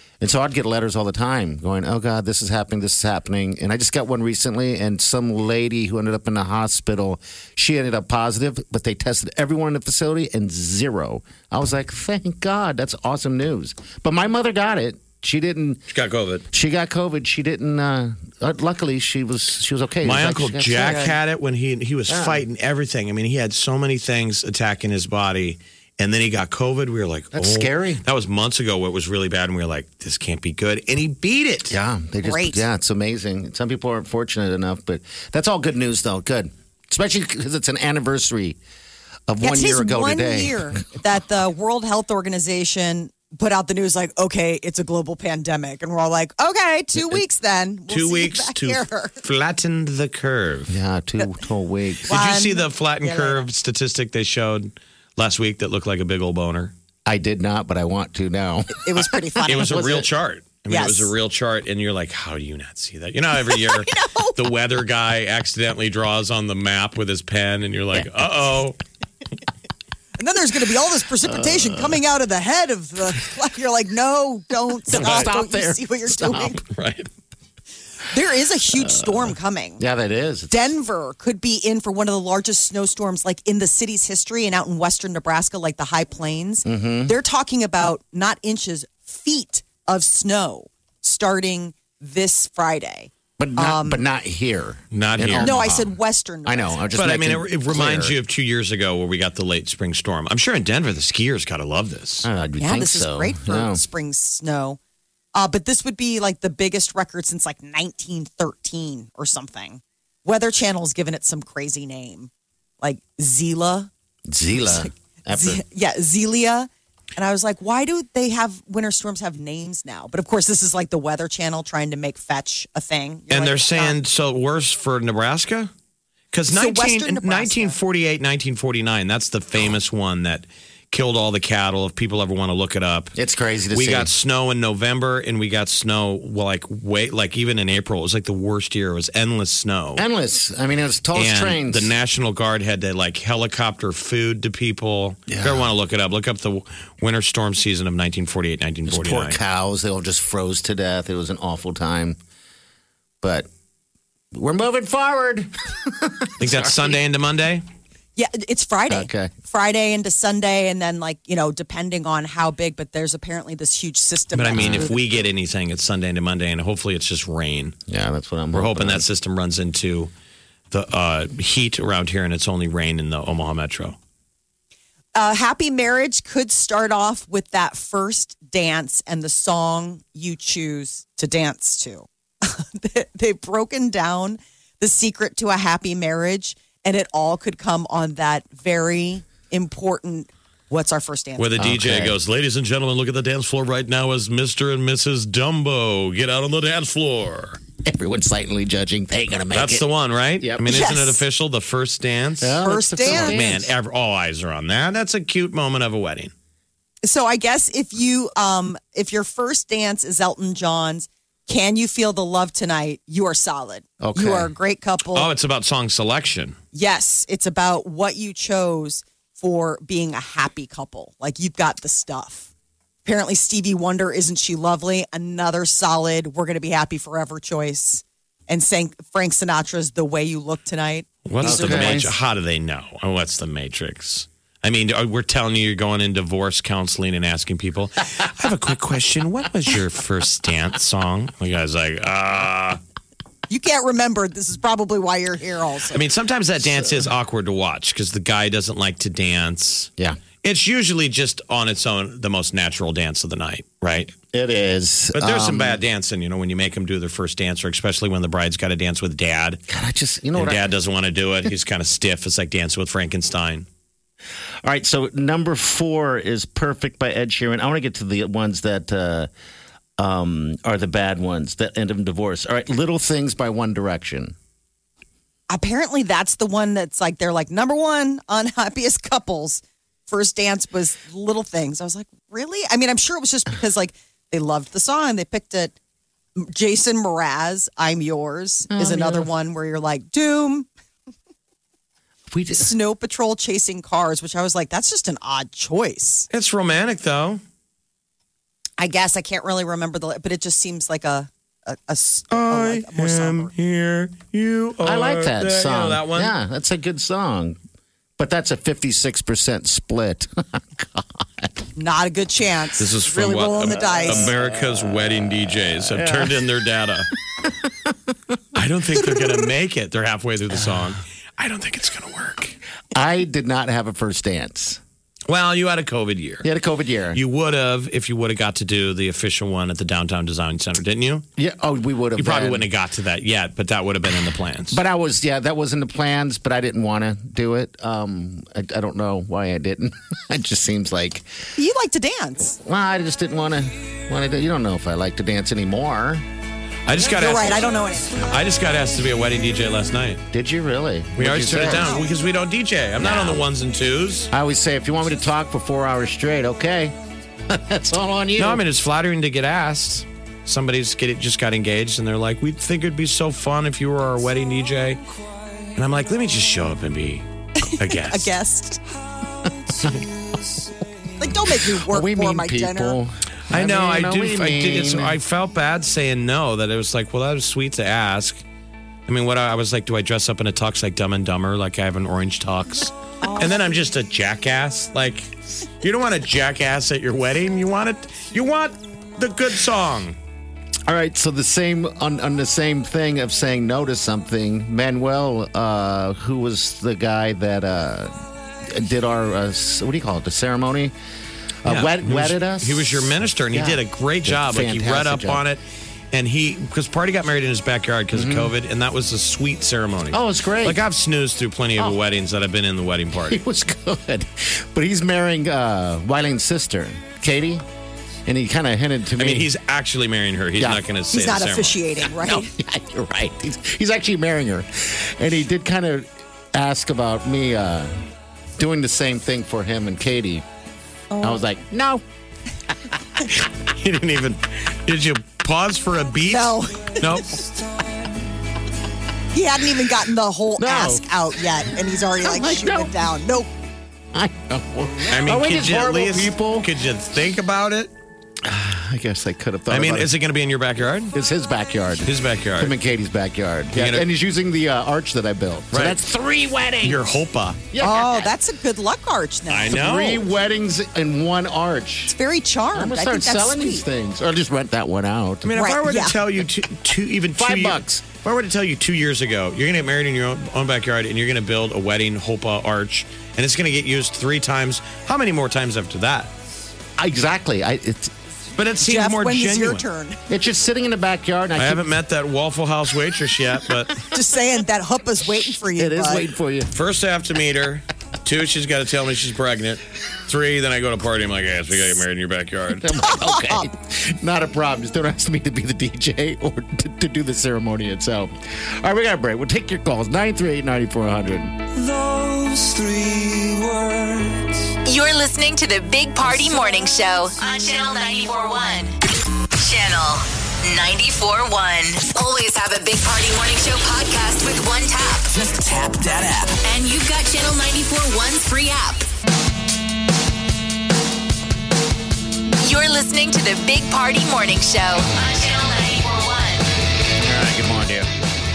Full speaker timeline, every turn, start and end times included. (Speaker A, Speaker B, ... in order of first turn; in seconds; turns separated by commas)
Speaker A: 0.2-15.8, Speaker B: 15.9-16.4, Speaker A: 16.5-21.1, Speaker B: 20.0-31.7, Speaker A: 22.1-22.4, Speaker A: 27.3-28.0, Speaker A: 31.7-38.6, Speaker C: 32.2-32.6, Speaker A: 39.3-40.8, Speaker C: 39.4-49.1, Speaker B: 47.9-50.7, Speaker A: 50.7-52.1, Speaker C: 52.1-53.4, Speaker B: 52.1-56.7, Speaker A: 57.0-60.1, Speaker C: 58.8-59.9, Speaker B: 59.5-68.8, Speaker C: 60.7-61.1, Speaker C: 63.5-64.3, Speaker C: 70.2-76.6, Speaker A: 71.3-71.8, Speaker A: 74.9-76.5, Speaker B: 76.4-77.1, Speaker C: 78.1-79.8, Speaker A: 79.0-79.2, Speaker A: 79.8-80.7, Speaker C: 80.5-94.0, Speaker A: 86.6-87.2, Speaker A: 93.4-95.9, Speaker B: 94.9-95.6, Speaker C: 95.4-96.8, Speaker A: 96.5-98.1, Speaker B: 96.9-102.3, Speaker A: 102.2-103.8, Speaker C: 102.6-104.8, Speaker C: 105.3-112.3, Speaker C: 112.8-113.9, Speaker A: 114.3-115.6, Speaker C: 114.5-124.0, Speaker B: 123.3-125.7, Speaker B: 126.3-133.2, Speaker C: 126.5-127.8, Speaker A: 133.2-134.1, Speaker B: 133.7-140.0, Speaker A: 139.9-141.9, Speaker B: 141.1-149.4, Speaker A: 145.3-145.7, Speaker A: 148.9-152.2, Speaker A: 153.2-153.5, Speaker A: 154.3-157.0, Speaker B: 156.4-157.6, Speaker C: 158.2-165.0, Speaker A: 158.9-159.3, Speaker B: 164.3-167.8, Speaker A: 164.5-164.9, Speaker A: 167.9-169.0, Speaker B: 168.5-170.1, Speaker B: 170.7-174.0, Speaker C: 175.1-191.5, Speaker B: 191.4-197.6, Speaker A: 191.6-192.2, Speaker A: 197.8-199.9, Speaker B: 199.5-206.3, Speaker C: 200.6-201.2, Speaker A: 202.4-203.7, Speaker C: 202.6-203.4, Speaker C: 207.0-215.3, Speaker A: 214.0-214.5, Speaker B: 215.1-216.6, Speaker C: 216.7-222.5, Speaker C: 223.0-232.0, Speaker B: 231.2-242.8, Speaker A: 231.4-232.1, Speaker C: 243.5-246.0, Speaker B: 245.9-249.9, Speaker B: 250.4-254.1, Speaker A: 254.3-255.8, Speaker B: 255.1-259.6, Speaker A: 259.7-260.6, Speaker B: 260.3-263.7, Speaker A: 264.6-269.3, Speaker A: 270.0-274.3, Speaker C: 275.5-285.7, Speaker C: 286.4-290.7, Speaker A: 288.7-289.3, Speaker A: 292.3-292.7, Speaker C: 292.5-296.3, Speaker B: 296.3-297.4, Speaker C: 298.8-303.5, Speaker B: 302.3-306.3, Speaker A: 304.8-307.6, Speaker A: 308.2-311.5, Speaker C: 311.8-314.3, Speaker B: 312.8-317.1, Speaker A: 314.0-316.5, Speaker A: 317.4-319.3, Speaker B: 318.5-322.6, Speaker A: 320.5-320.9, Speaker A: 322.9-324.8, Speaker B: 325.3-326.5, Speaker A: 326.4-327.2, Speaker B: 327.1-331.2, Speaker A: 331.4-332.7, Speaker B: 332.1-334.8, Speaker A: 334.1-341.2, Speaker C: 341.6-342.6, Speaker A: 342.6-346.2, Speaker B: 346.9-350.2, Speaker C: 347.0-348.3, Speaker A: 350.3-352.0, Speaker B: 351.2-354.3, Speaker A: 353.0-353.4, Speaker A: 354.3-356.9, Speaker A: 357.5-358.6, Speaker B: 358.4-365.0, Speaker B: 365.8-368.3, Speaker C: 367.6-368.8, Speaker A: 369.4-370.1, Speaker C: 371.2-373.0, Speaker A: 371.8-375.2, Speaker B: 373.5-378.4, Speaker B: 379.1-390.2, Speaker A: 390.9-400.9, Speaker A: 401.6-405.4, Speaker B: 401.6-405.6, Speaker B: 406.1-413.4, Speaker A: 408.1-408.5, Speaker A: 410.1-410.8, Speaker A: 413.3-417.6, Speaker A: 418.3-419.5, Speaker B: 419.2-421.8, Speaker A: 420.6-420.8, Speaker C: 421.1-422.5, Speaker A: 422.2-427.9, Speaker A: 428.6-430.4, Speaker C: 431.1-431.4, Speaker A: 431.2-432.0, Speaker B: 433.6-437.4, Speaker C: 436.3-437.1, Speaker C: 439.3-443.5, Speaker A: 440.6-441.0, Speaker A: 442.2-443.1, Speaker A: 444.1-446.7, Speaker B: 445.1-447.9, Speaker A: 448.4-450.1, Speaker B: 449.7-451.1, Speaker A: 451.1-457.0, Speaker B: 452.0-452.7, Speaker B: 453.7-454.1, Speaker B: 455.7-456.0, Speaker B: 456.8-457.6, Speaker A: 457.7-458.3, Speaker C: 457.8-459.8, Speaker B: 459.5-460.2, Speaker A: 459.7-462.1, Speaker C: 462.1-463.9, Speaker A: 462.7-465.5, Speaker B: 465.4-476.3, Speaker C: 465.5-466.2, Speaker A: 467.4-468.0, Speaker A: 477.0-478.1, Speaker B: 478.5-479.8, Speaker C: 478.8-480.2, Speaker A: 480.3-481.9, Speaker B: 481.6-484.0, Speaker C: 484.1-486.3, Speaker A: 485.8-486.7, Speaker B: 486.7-493.0, Speaker A: 492.8-501.6, Speaker C: 493.1-493.6, Speaker D: 501.7-504.6, Speaker E: 504.8-509.0, Speaker E: 509.5-515.4, Speaker D: 515.4-516.5, Speaker E: 516.6-519.1, Speaker E: 522.6-526.7, Speaker A: 527.1-528.1